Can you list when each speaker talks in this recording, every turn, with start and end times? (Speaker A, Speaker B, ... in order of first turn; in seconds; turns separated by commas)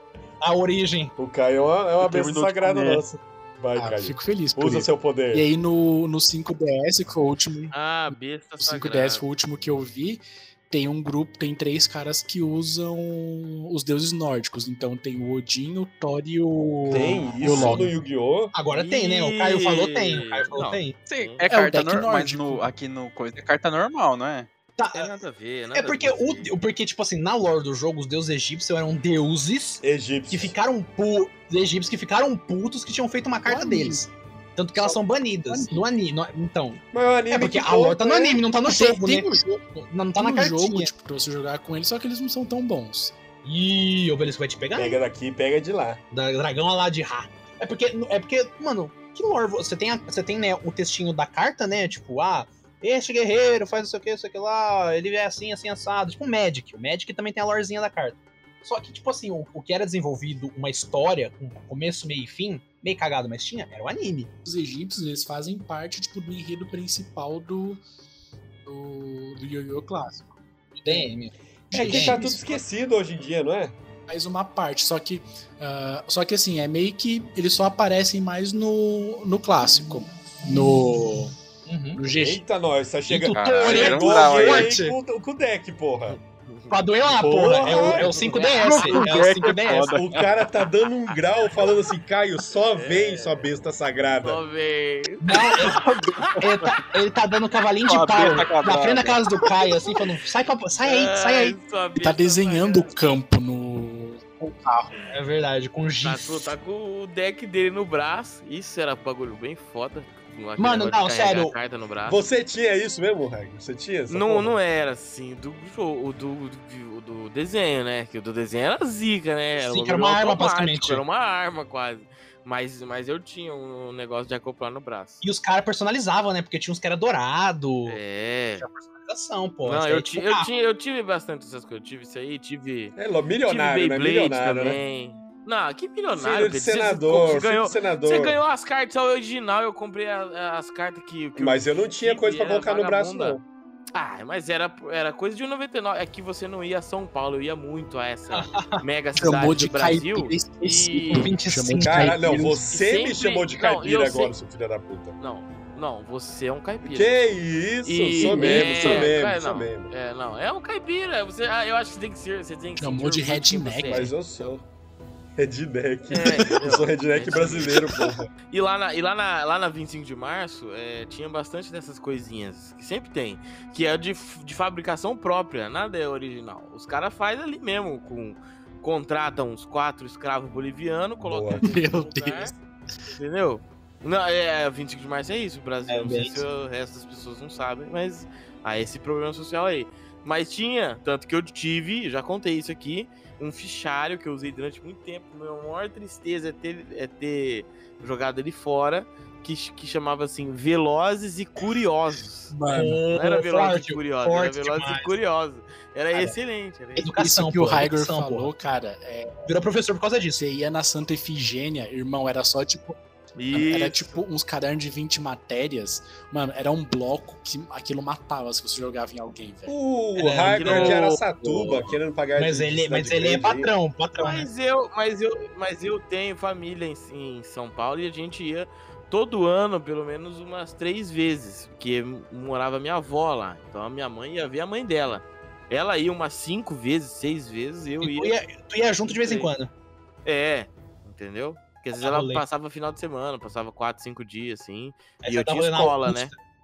Speaker A: 0.4-1.1, Speaker B: 1.2-5.4, Speaker C: 2.0-3.0, Speaker D: 3.8-17.9, Speaker E: 7.7-9.2, Speaker B: 16.9-18.5, Speaker E: 17.1-17.7, Speaker A: 18.5-21.0, Speaker E: 18.7-21.4, Speaker C: 21.1-24.5, Speaker D: 21.5-22.7, Speaker A: 24.8-25.1, Speaker E: 24.9-26.5, Speaker A: 25.7-40.9, Speaker B: 29.8-30.5, Speaker D: 33.4-34.0, Speaker D: 35.5-35.9, Speaker B: 36.9-38.5, Speaker D: 38.7-39.6, Speaker D: 40.1-43.1, Speaker A: 43.4-45.0, Speaker B: 44.7-46.0, Speaker A: 46.1-64.3, Speaker D: 64.4-67.8, Speaker D: 68.6-71.1, Speaker A: 70.8-72.2, Speaker D: 71.7-72.5, Speaker B: 71.7-73.8, Speaker D: 74.1-81.3, Speaker A: 81.7-82.0, Speaker D: 82.0-82.4, Speaker B: 82.1-86.2, Speaker A: 83.1-84.9, Speaker C: 83.3-84.7, Speaker E: 86.1-86.8, Speaker A: 86.7-89.9, Speaker B: 87.2-88.1, Speaker E: 87.5-89.0, Speaker C: 88.6-90.3, Speaker B: 89.9-94.4, Speaker E: 92.7-93.5, Speaker E: 94.2-96.4, Speaker A: 95.2-95.8, Speaker A: 96.4-101.6, Speaker C: 97.8-99.2, Speaker E: 100.8-103.1, Speaker D: 102.0-105.0, Speaker A: 105.1-106.5, Speaker E: 106.0-112.2, Speaker A: 110.6-111.5, Speaker B: 112.0-114.6, Speaker E: 114.1-125.2, Speaker A: 119.6-121.0, Speaker A: 125.2-128.0, Speaker E: 127.9-128.7, Speaker A: 128.6-130.5, Speaker E: 129.6-143.4, Speaker B: 132.9-134.8, Speaker B: 136.1-138.4, Speaker B: 141.3-143.4, Speaker E: 143.9-151.3, Speaker A: 148.3-148.8, Speaker D: 149.2-152.6, Speaker A: 151.1-152.5, Speaker B: 151.8-155.2, Speaker E: 152.7-154.3, Speaker E: 155.2-157.2, Speaker B: 156.8-159.9, Speaker E: 157.8-164.5, Speaker D: 158.2-159.1, Speaker D: 162.8-164.1, Speaker B: 163.9-164.6, Speaker B: 165.4-168.3, Speaker E: 166.1-167.9, Speaker E: 168.5-182.5, Speaker B: 181.2-181.6, Speaker D: 181.6-182.6, Speaker E: 183.1-202.5, Speaker A: 185.9-186.4, Speaker D: 202.5-203.0, Speaker A: 202.7-205.2, Speaker E: 203.1-207.1, Speaker A: 207.0-208.5, Speaker D: 207.1-209.5, Speaker A: 209.5-210.4, Speaker D: 210.3-213.0, Speaker E: 213.4-214.2, Speaker D: 213.5-219.7, Speaker B: 219.7-223.7, Speaker A: 220.2-221.0, Speaker E: 220.5-221.9, Speaker A: 222.4-224.5, Speaker E: 224.2-238.3, Speaker A: 238.0-239.7, Speaker E: 239.1-239.5, Speaker E: 240.2-246.3, Speaker A: 242.0-242.4, Speaker A: 245.2-246.3